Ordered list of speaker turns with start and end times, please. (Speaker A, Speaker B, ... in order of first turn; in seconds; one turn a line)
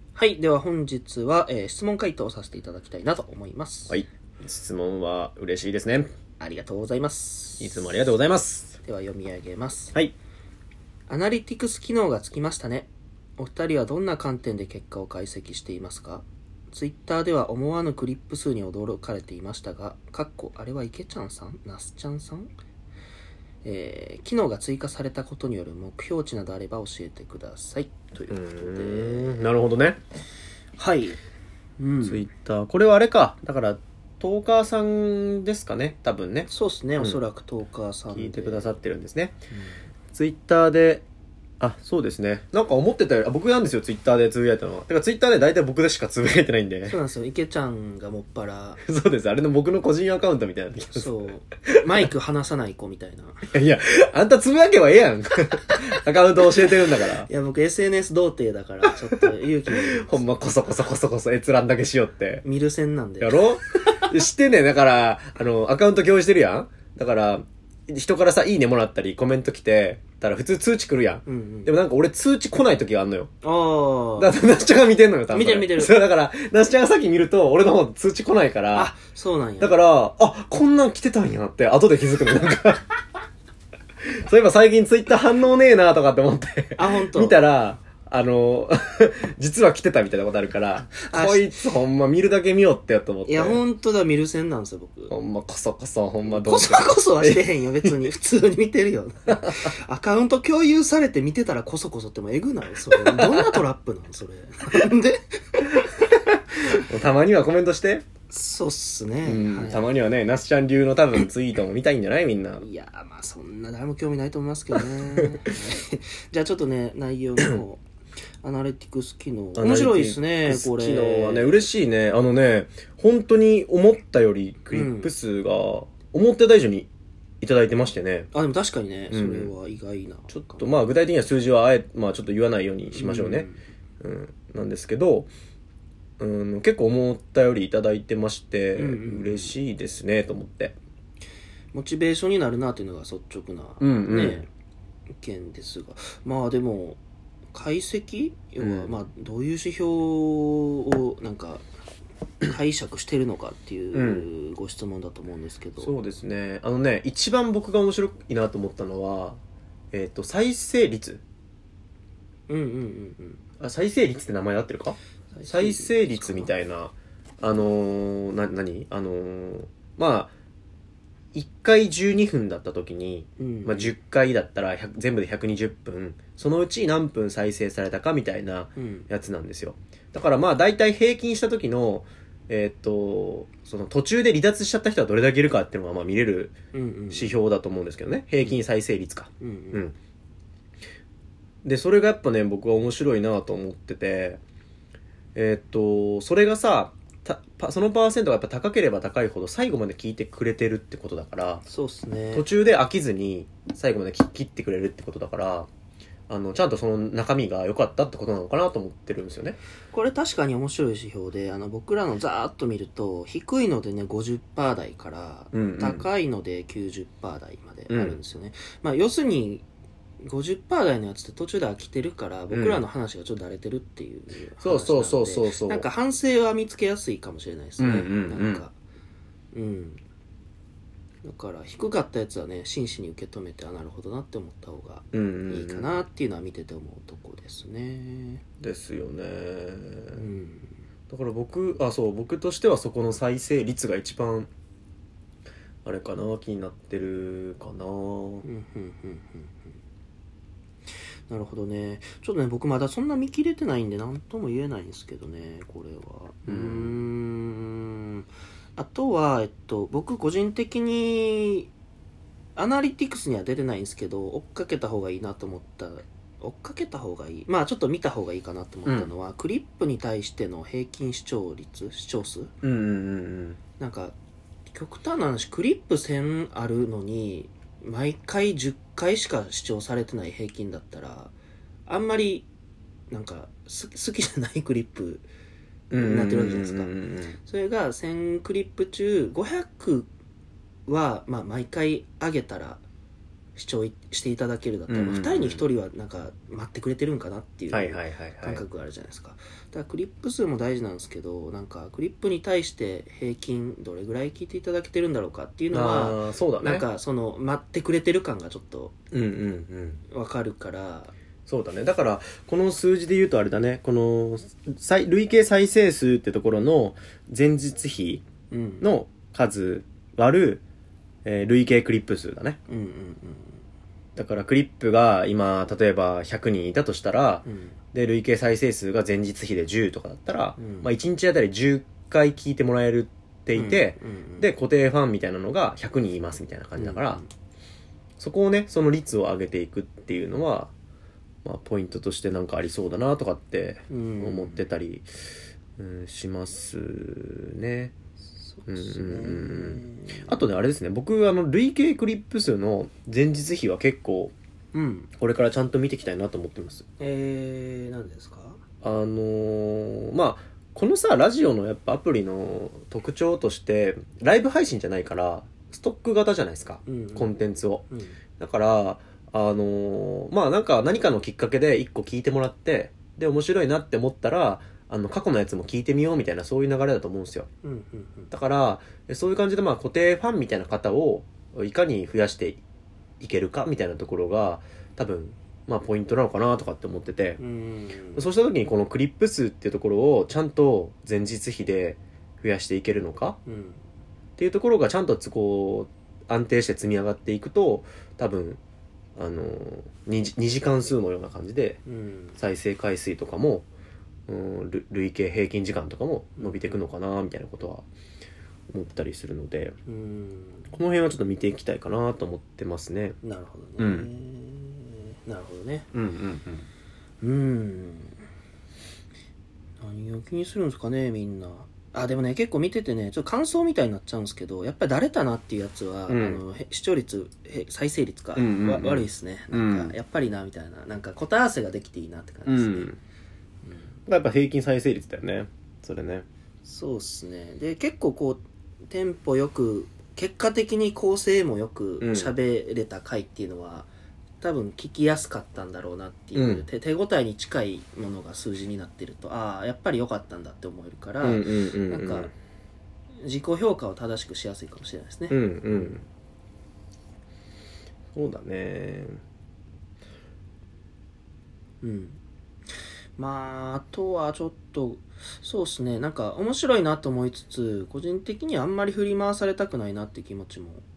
Speaker A: 0.1-4.0
Speaker B: 3.9-6.1
Speaker A: 6.4-7.9
Speaker B: 7.6-8.8
Speaker A: 8.8-9.9
Speaker A: 11.1-22.5
Speaker A: 23.6-29.4
Speaker B: 28.3-30.0
Speaker A: 30.8-31.2
Speaker A: 31.8-32.2
Speaker B: 32.0-37.2
Speaker A: 36.5-38.8
Speaker B: 38.1-39.4
Speaker A: 39.5-39.8
Speaker B: 40.1-41.0
Speaker B: 41.6-47.0
Speaker A: 46.9-48.8
Speaker B: 48.8-51.8
Speaker A: 50.9-53.5
Speaker B: 53.5-57.3
Speaker A: 56.7-60.4
Speaker B: 58.9-62.4
Speaker A: 62.4-63.4
Speaker B: 63.2-73.3
Speaker A: 71.2-71.7
Speaker A: 73.4-74.3
Speaker B: 74.2-78.9
Speaker A: 75.3-75.9
Speaker A: 78.7-79.8
Speaker B: 79.6-83.0
Speaker B: 84.0-93.6
Speaker A: 86.8-87.4
Speaker A: 90.9-91.7
Speaker A: 93.3-95.1
Speaker B: 95.1-98.1
Speaker A: 96.2-105.9
Speaker B: 102.9-103.6
Speaker B: 106.1-108.0
Speaker A: 108.3-109.9
Speaker B: 109.2-112.6
Speaker A: 112.6-117.8
Speaker A: 118.4-121.6
Speaker B: 119.5-126.9
Speaker A: 124.7-125.1
Speaker B: 127.4-128.3
Speaker A: 128.3-130.7
Speaker B: 129.1-129.5
Speaker B: 130.3-133.5
Speaker A: 132.9-133.6
Speaker B: 134.0-135.3
Speaker B: 136.2-140.8
Speaker A: 138.8-139.6
Speaker A: 141.7-144.5
Speaker B: 143.8-144.4
Speaker A: 145.2-147.0
Speaker A: 147.5-151.6
Speaker B: 148.6-148.9
Speaker A: 152.4-155.9
Speaker B: 153.9-154.3
Speaker B: 155.8-159.4
Speaker B: 159.9-161.2
Speaker A: 162.5-163.4
Speaker B: 163.6-170.3
Speaker A: 165.3-166.5
Speaker B: 171.3-186.5
Speaker A: 173.4-173.9
Speaker A: 178.8-179.1
Speaker A: 186.7-187.4
Speaker B: 187.1-189.9
Speaker A: 189.4-189.9
Speaker B: 191.6-194.4
Speaker B: 195.3-201.6
Speaker A: 201.7-202.4
Speaker B: 202.3-205.7
Speaker B: 206.3-209.6
Speaker A: 209.9-219.6
Speaker B: 215.5-216.1
Speaker B: 217.9-218.2
Speaker A: 220.2-228.7
Speaker B: 222.5-222.8
Speaker B: 224.6-225.9
Speaker B: 227.8-228.6
Speaker A: 229.5-230.0
Speaker A: 231.2-238.4
Speaker B: 235.1-236.0
Speaker B: 238.6-240.2
Speaker A: 240.1-240.7
Speaker B: 241.1-244.5
Speaker B: 245.8-248.4
Speaker A: 248.4-249.7
Speaker A: 251.3-261.7
Speaker B: 256.5-257.0
Speaker A: 262.6-272.5
Speaker B: 268.9-269.1
Speaker B: 272.6-273.6
Speaker A: 273.8-274.1
Speaker A: 274.7-281.3
Speaker A: 281.9-282.5
Speaker A: 283.1-285.2
Speaker B: 285.9-287.4
Speaker A: 285.9-290.1
Speaker A: 290.9-292.8
Speaker A: 293.6-308.9
Speaker B: 294.9-295.6
Speaker B: 297.7-298.6
Speaker B: 305.7-306.9
Speaker B: 309.1-310.0
Speaker A: 310.1-311.1
Speaker B: 311.5-318.2
Speaker A: 318.5-318.9
Speaker B: 318.8-320.6
Speaker B: 321.2-322.6
Speaker A: 322.7-323.6
Speaker B: 324.1-337.2
Speaker A: 327.4-327.8
Speaker A: 330.6-330.9
Speaker A: 333.5-334.5
Speaker A: 336.8-337.3
Speaker B: 338.2-340.7
Speaker B: 341.4-345.1
Speaker A: 343.9-344.6
Speaker B: 345.8-347.9
Speaker A: 348.4-350.4
Speaker B: 348.7-354.3
Speaker A: 354.7-355.1
Speaker B: 355.2-356.9
Speaker A: 357.0-358.6
Speaker B: 358.8-367.8
Speaker A: 366.9-367.3
Speaker A: 367.9-368.2
Speaker B: 368.4-377.5
Speaker A: 377.6-378.3
Speaker B: 378.3-382.6
Speaker B: 383.2-387.4
Speaker A: 387.4-388.2
Speaker B: 388.1-393.4
Speaker A: 393.4-393.8
Speaker B: 394.4-398.6
Speaker B: 399.1-401.8
Speaker A: 401.9-402.4
Speaker B: 402.4-403.7
Speaker B: 404.3-407.9
Speaker A: 406.4-406.8
Speaker B: 408.7-409.8
Speaker A: 409.9-410.7
Speaker B: 410.7-413.2
Speaker A: 413.2-415.9
Speaker B: 413.8-414.1
Speaker B: 415.9-416.7
Speaker A: 417.2-418.2
Speaker A: 419.8-432.9
Speaker B: 426.1-426.4
Speaker B: 428.4-429.9
Speaker B: 432.4-433.0
Speaker B: 434.1-436.3
Speaker A: 436.6-443.9
Speaker B: 442.0-442.4
Speaker A: 444.4-452.3
Speaker B: 446.3-446.6
Speaker B: 451.2-452.3
Speaker A: 453.2-455.4
Speaker B: 455.3-456.0
Speaker B: 458.1-459.2
Speaker A: 461.8-462.2
Speaker A: 463.2-470.8